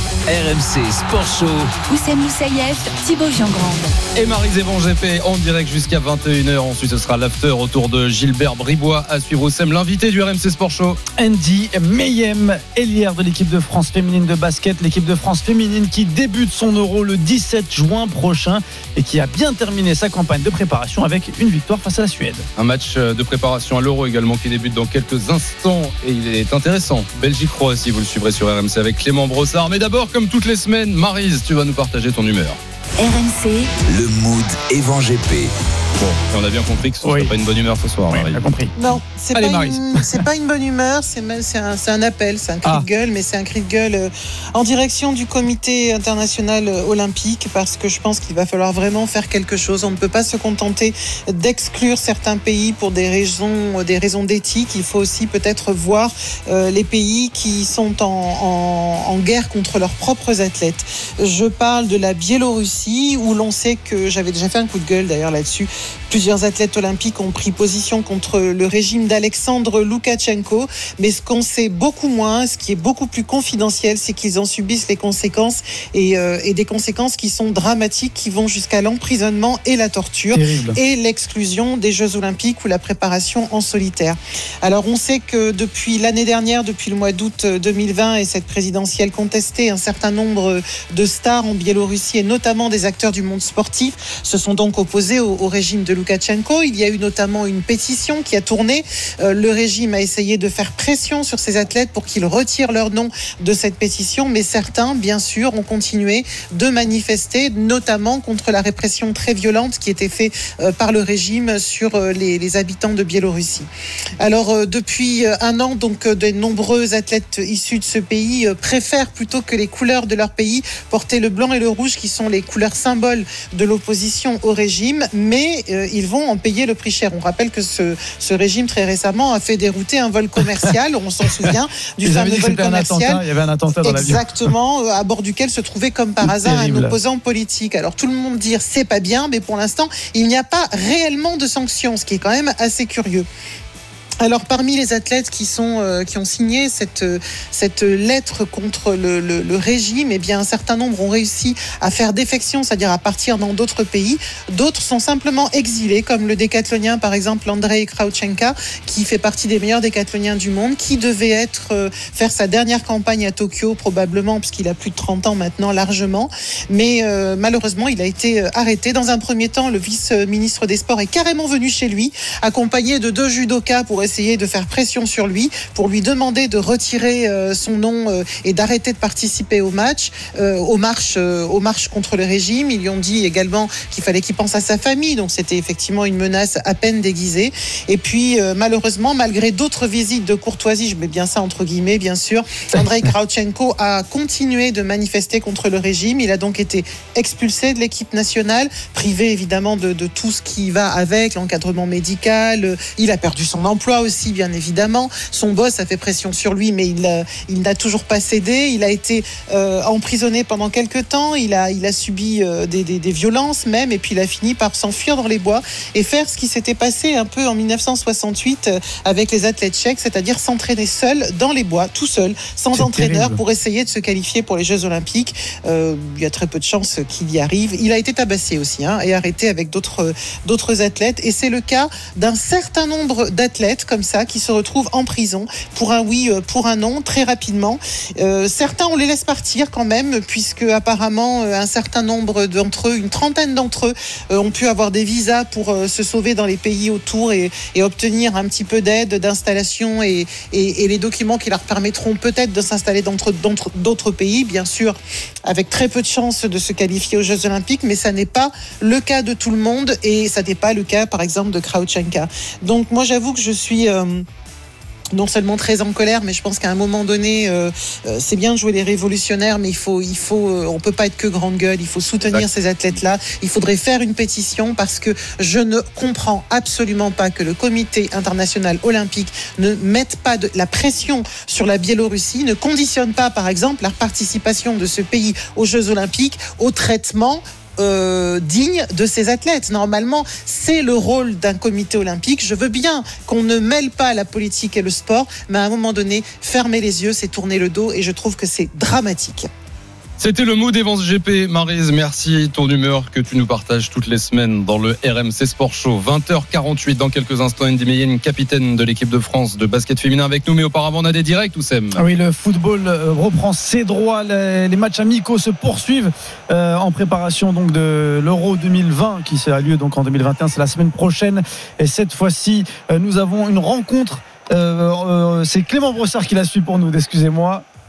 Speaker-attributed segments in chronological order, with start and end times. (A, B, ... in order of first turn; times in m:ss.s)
0:00.3-0:01.7 A
0:01.9-0:04.0 B
0:04.2-0:11.0 C
0:11.2-0:22.5 D
0:22.6-0:32.6 C
0:33.0-0:33.7 B
0:33.8-0:35.5 A
0:36.0-0:38.4 C
0:37.0-0:37.3 D
0:38.1-0:38.8 D
0:38.8-1:53.7 E
0:39.4-0:40.2 D
1:20.3-1:20.8 D
1:54.2-2:13.2 E
2:12.0-2:14.2 D
2:13.8-2:23.3 E
2:16.2-2:17.0 D
2:24.2-4:24.2 E
3:42.8-3:43.4 D
4:25.1-4:59.5 E
5:00.2-5:12.0 C
5:12.0-5:27.6 D